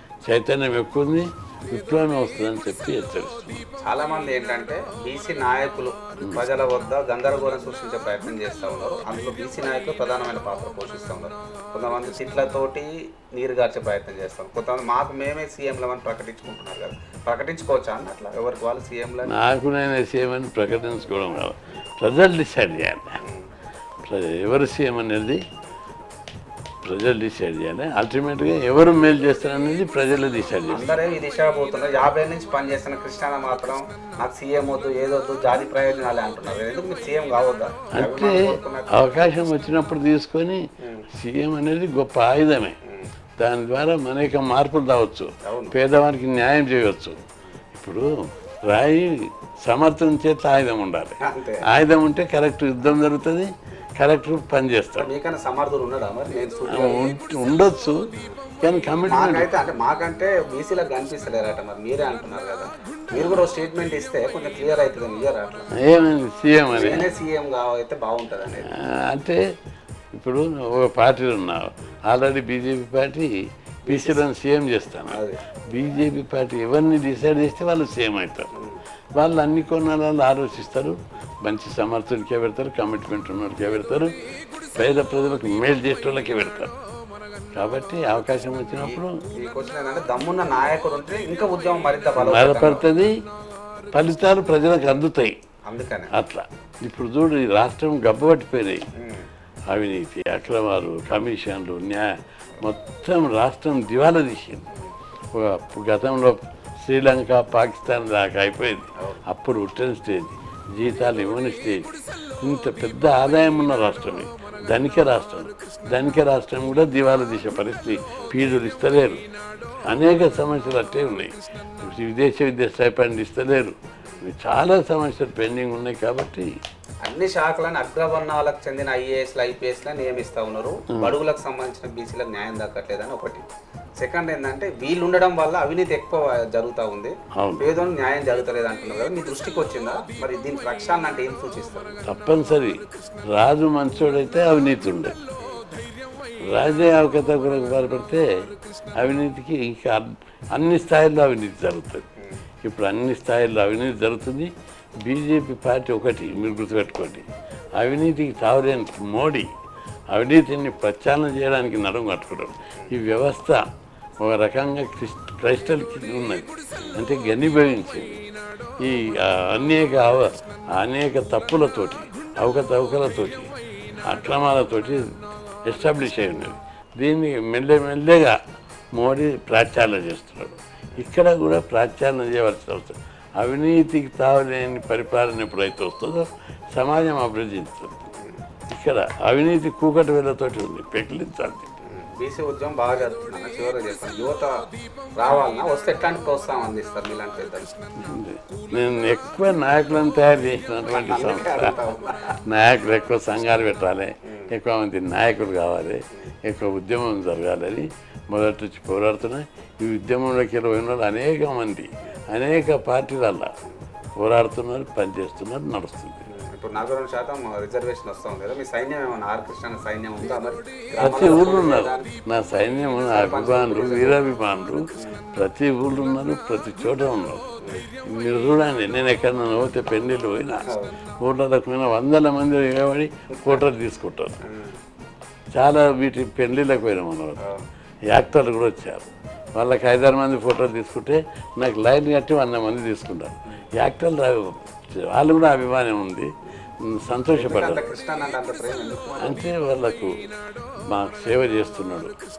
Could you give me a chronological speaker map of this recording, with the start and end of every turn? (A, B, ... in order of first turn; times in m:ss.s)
0:00.3-0:03.6 A
0:03.8-0:19.4 B
0:19.3-0:23.2 A
0:24.1-0:25.4 A
0:26.8-0:31.0 A
0:30.7-0:39.0 B
0:37.9-0:42.8 A
0:43.4-0:47.2 A
0:45.4-0:45.8 B
0:47.7-0:48.1 A
0:48.7-0:51.2 A
0:51.2-0:51.6 B
0:51.7-0:55.1 A
0:55.0-0:57.1 B
0:56.7-0:58.0 A
0:58.6-0:59.5 A
0:59.1-1:05.7 B
1:03.1-1:03.4 A
1:05.8-1:07.1 A
1:06.8-1:08.7 B
1:08.7-1:09.4 A
1:10.1-1:13.4 A
1:13.9-1:14.2 B
1:13.9-1:15.2 A
1:15.1-1:15.4 B
1:15.7-1:18.5 A
1:18.6-1:18.8 B
1:19.2-1:24.1 A
1:24.8-1:26.7 A
1:27.6-1:29.1 A
1:28.8-1:32.8 B
1:32.2-1:33.2 A
1:33.9-1:35.4 A
1:35.7-1:36.1 B
1:36.1-1:38.9 A
1:39.0-1:39.3 B
1:39.7-1:42.1 A
1:42.6-1:44.7 A
1:45.3-1:59.2 A
1:59.9-2:06.5 A
2:07.0-2:13.4 B
2:14.0-2:22.0 B
2:17.4-2:17.7 A
2:22.1-2:22.8 A
2:23.3-2:25.2 A
2:26.5-2:28.2 A
2:29.0-2:32.1 A
2:32.6-2:37.3 A
2:37.8-2:39.5 A
2:40.1-2:43.6 A
2:44.2-2:48.2 A
2:48.8-2:53.5 A
2:54.1-2:55.1 A
2:55.7-2:58.4 A
2:58.9-3:08.0 A
3:08.7-3:11.7 A
3:11.9-3:14.5 B
3:15.2-3:17.7 B
3:18.0-3:21.8 A
3:20.9-3:22.4 B
3:22.5-3:33.5 A
3:34.2-3:36.2 A
3:36.3-3:42.1 B
3:41.0-3:44.8 A
3:43.1-3:44.2 B
3:45.4-3:47.6 A
3:48.1-3:50.7 A
3:50.7-3:50.9 B
3:51.2-3:54.4 A
3:53.4-3:53.6 B
3:54.4-3:54.8 B
3:55.6-3:57.4 A
3:58.1-4:06.3 A
4:06.8-4:07.8 A
4:07.3-4:09.4 B
4:09.2-4:10.2 A
4:10.9-4:12.1 A